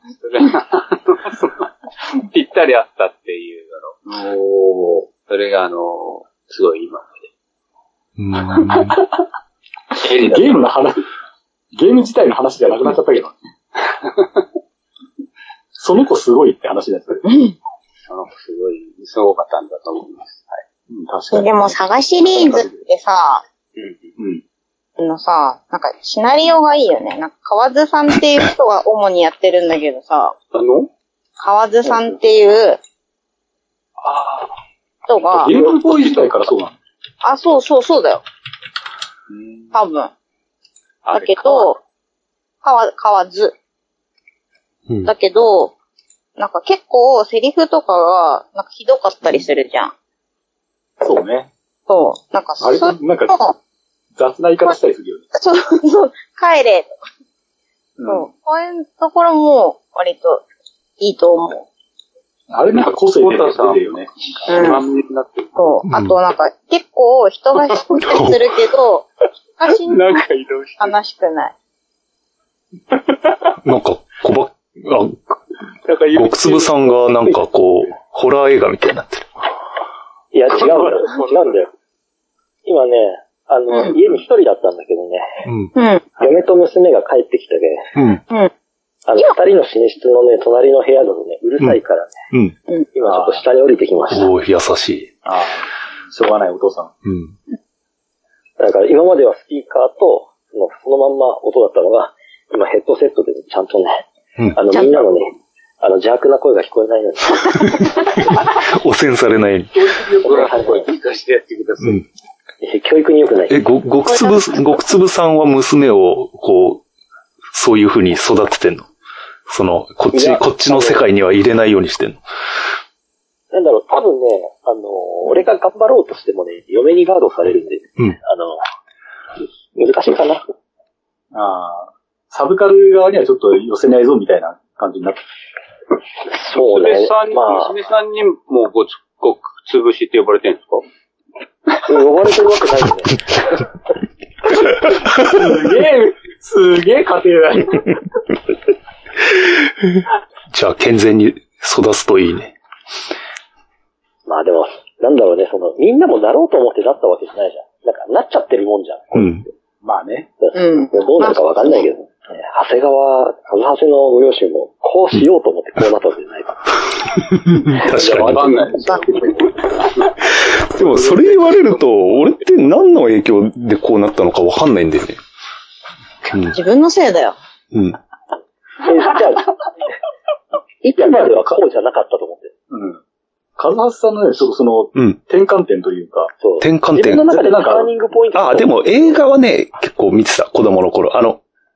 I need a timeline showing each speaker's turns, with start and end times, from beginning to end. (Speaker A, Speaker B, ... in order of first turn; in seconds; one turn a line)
Speaker A: 0.2-4.0
Speaker B: 4.1-5.1
Speaker A: 5.3-7.3
Speaker C: 8.2-9.0
Speaker B: 8.8-9.2
Speaker A: 10.0-10.7
Speaker B: 10.1-11.0
Speaker B: 11.7-13.4
Speaker A: 13.9-14.3
Speaker B: 15.8-17.2
Speaker D: 17.3-17.6
Speaker A: 18.1-20.6
Speaker B: 20.9-22.8
Speaker D: 21.3-23.4
Speaker A: 23.8-24.1
Speaker B: 24.2-24.4
Speaker D: 25.0-30.4
Speaker A: 30.5-30.9
Speaker D: 31.4-32.8
Speaker A: 34.1-34.5
Speaker D: 35.1-35.5
Speaker B: 35.3-36.8
Speaker A: 35.5-36.1
Speaker D: 37.2-38.2
Speaker B: 39.3-39.7
Speaker D: 39.7-40.1
Speaker A: 41.0-41.7
Speaker D: 41.1-41.8
Speaker D: 42.6-43.5
Speaker D: 45.0-45.8
Speaker D: 46.4-49.9
Speaker B: 51.0-51.5
Speaker D: 51.9-53.5
Speaker B: 52.6-53.4
Speaker B: 54.1-55.2
Speaker D: 55.3-56.9
Speaker B: 58.0-58.3
Speaker D: 58.1-60.5
Speaker D: 61.0-61.7
Speaker B: 62.5-64.7
Speaker A: 62.8-65.6
Speaker D: 64.5-64.8
Speaker D: 65.6-69.1
Speaker C: 65.9-66.2
Speaker C: 68.0-68.5
Speaker D: 69.6-70.2
Speaker A: 69.8-71.0
Speaker D: 70.8-71.5
Speaker A: 73.1-73.5
Speaker C: 73.6-75.4
Speaker A: 75.9-77.1
Speaker C: 76.1-79.3
Speaker E: 80.3-81.7
Speaker A: 80.6-81.6
Speaker B: 80.6-81.0
Speaker E: 82.7-85.5
Speaker C: 85.5-85.8
Speaker D: 85.8-86.1
Speaker E: 86.2-88.0
Speaker C: 88.0-88.2
Speaker E: 89.1-92.2
Speaker E: 92.9-94.3
Speaker B: 93.1-93.4
Speaker C: 94.1-95.1
Speaker B: 95.2-96.9
Speaker C: 97.0-97.4
Speaker E: 98.6-107.7
Speaker D: 104.8-105.0
Speaker C: 107.5-109.7
Speaker B: 109.8-110.5
Speaker A: 109.8-112.0
Speaker E: 110.2-110.9
Speaker E: 112.6-113.6
Speaker C: 113.5-116.8
Speaker D: 114.1-114.4
Speaker C: 117.5-118.9
Speaker C: 119.5-122.2
Speaker E: 120.1-121.1
Speaker E: 123.5-128.6
Speaker E: 129.8-130.4
Speaker B: 131.3-135.2
Speaker E: 136.3-137.7
Speaker A: 136.5-140.8
Speaker E: 141.8-143.2
Speaker B: 145.2-148.0
Speaker C: 149.4-152.6
Speaker E: 154.3-159.5
Speaker C: 159.1-159.4
Speaker B: 159.8-160.3
Speaker E: 160.4-166.6
Speaker D: 160.6-161.8
Speaker C: 167.2-168.7
Speaker A: 167.8-170.1
Speaker B: 168.7-169.0
Speaker C: 170.3-175.2
Speaker B: 170.8-171.4
Speaker C: 176.3-176.6
Speaker D: 176.5-177.4
Speaker C: 177.7-178.0
Speaker E: 178.8-179.6
Speaker E: 180.8-182.5
Speaker B: 181.0-181.6
Speaker B: 182.7-183.0
Speaker B: 183.6-186.3
Speaker E: 186.4-189.2
Speaker C: 186.6-187.2
Speaker B: 187.0-187.9
Speaker C: 188.3-191.4